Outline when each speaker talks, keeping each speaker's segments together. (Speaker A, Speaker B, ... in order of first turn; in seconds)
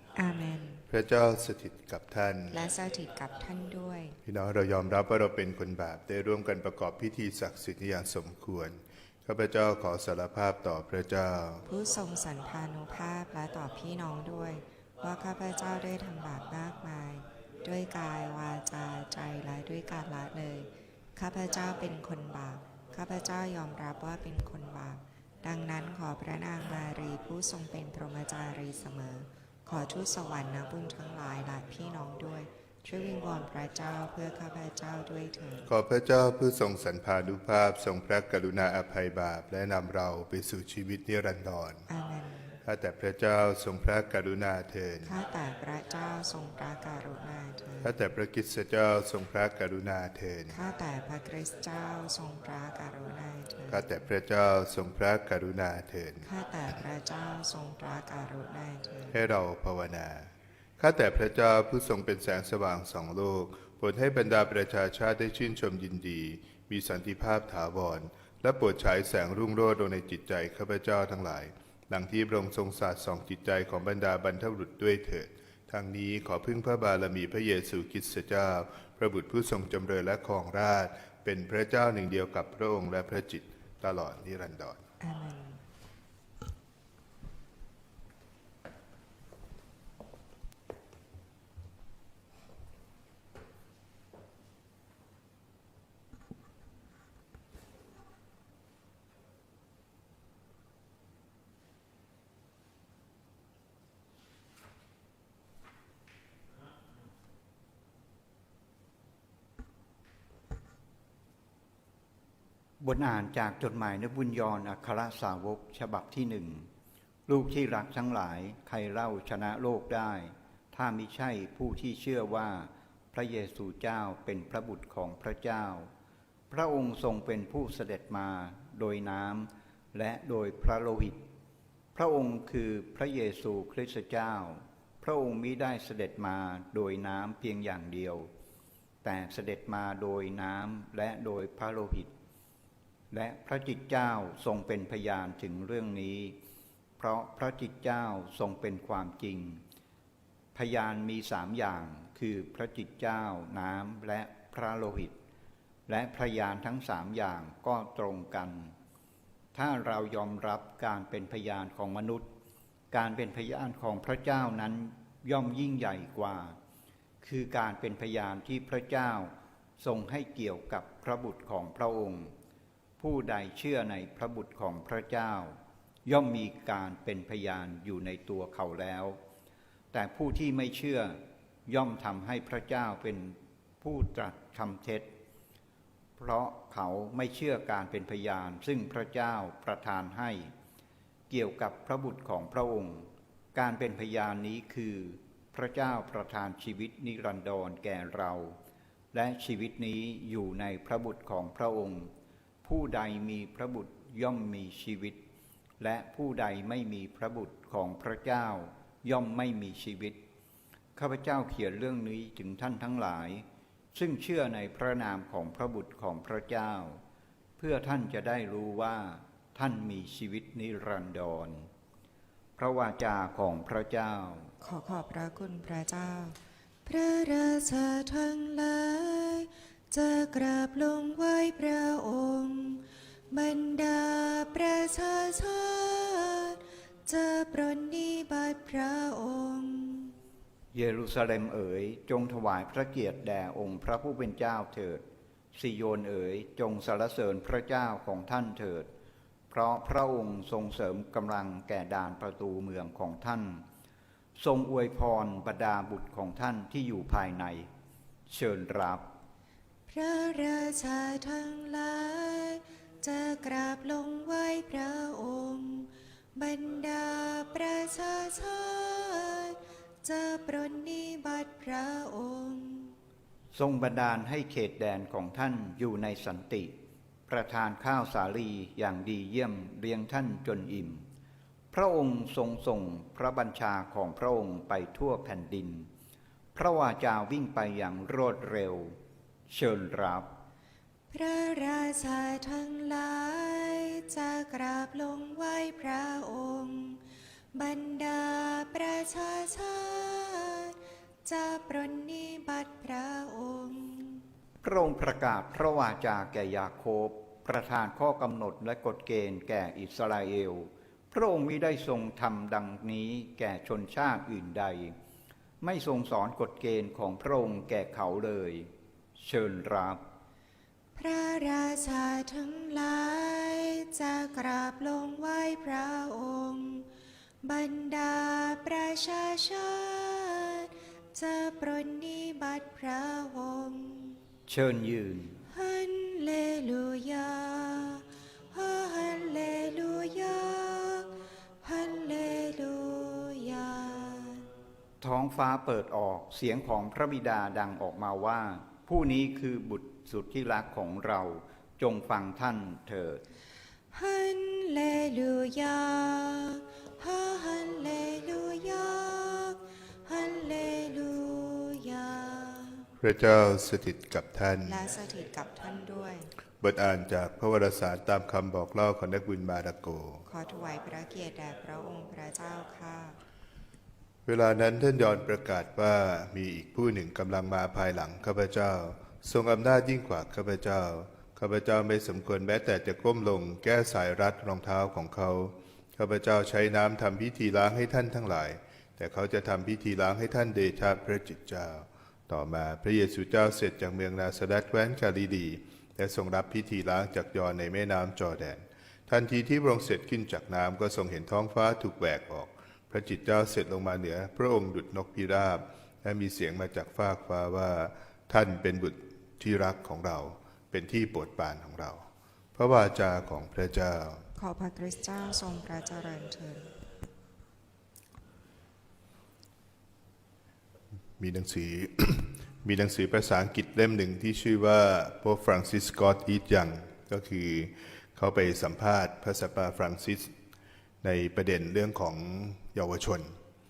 Speaker A: 0.1-0.8, 2.5-4.2, 11.7-35.7, 41.9-42.6, 45.0-48.0, 50.5-53.9, 56.2-59.2, 85.0-85.6, 224.6-240.1, 259.9-272.9, 291.1-304.2, 320.9-326.9, 327.4-334.2, 335.5-344.4, 353.9-362.9, 364.6-366.3, 370.3-373.2, 414.4-416.7
Speaker B: 0.9-2.6, 4.2-11.6, 35.7-41.9, 42.6-45.1, 47.8-50.6, 53.7-56.2, 59.1-84.8, 363.0-364.8, 366.6-370.2, 374.2-414.2, 421.2-430.3, 431.0-433.4
Speaker C: 112.8-116.7, 117.3-125.9, 126.5-131.2, 131.9-138.3, 139.0-142.1, 143.1-146.4, 147.0-149.6, 150.5-155.2, 155.9-158.7, 159.5-162.3, 162.9-166.6, 167.2-172.3, 173.0-179.2, 179.9-185.1, 186.2-190.5, 191.3-198.6, 199.1-202.1, 202.6-205.2, 205.8-210.2, 210.9-217.0, 217.6-221.7, 222.6-224.5, 240.7-248.9, 249.5-253.6, 254.3-257.7, 258.3-259.1, 273.5-276.7, 277.3-281.0, 281.7-285.9, 286.5-289.0, 289.5-290.3, 304.6-314.9, 315.6-320.0, 334.5-335.4, 345.0-353.2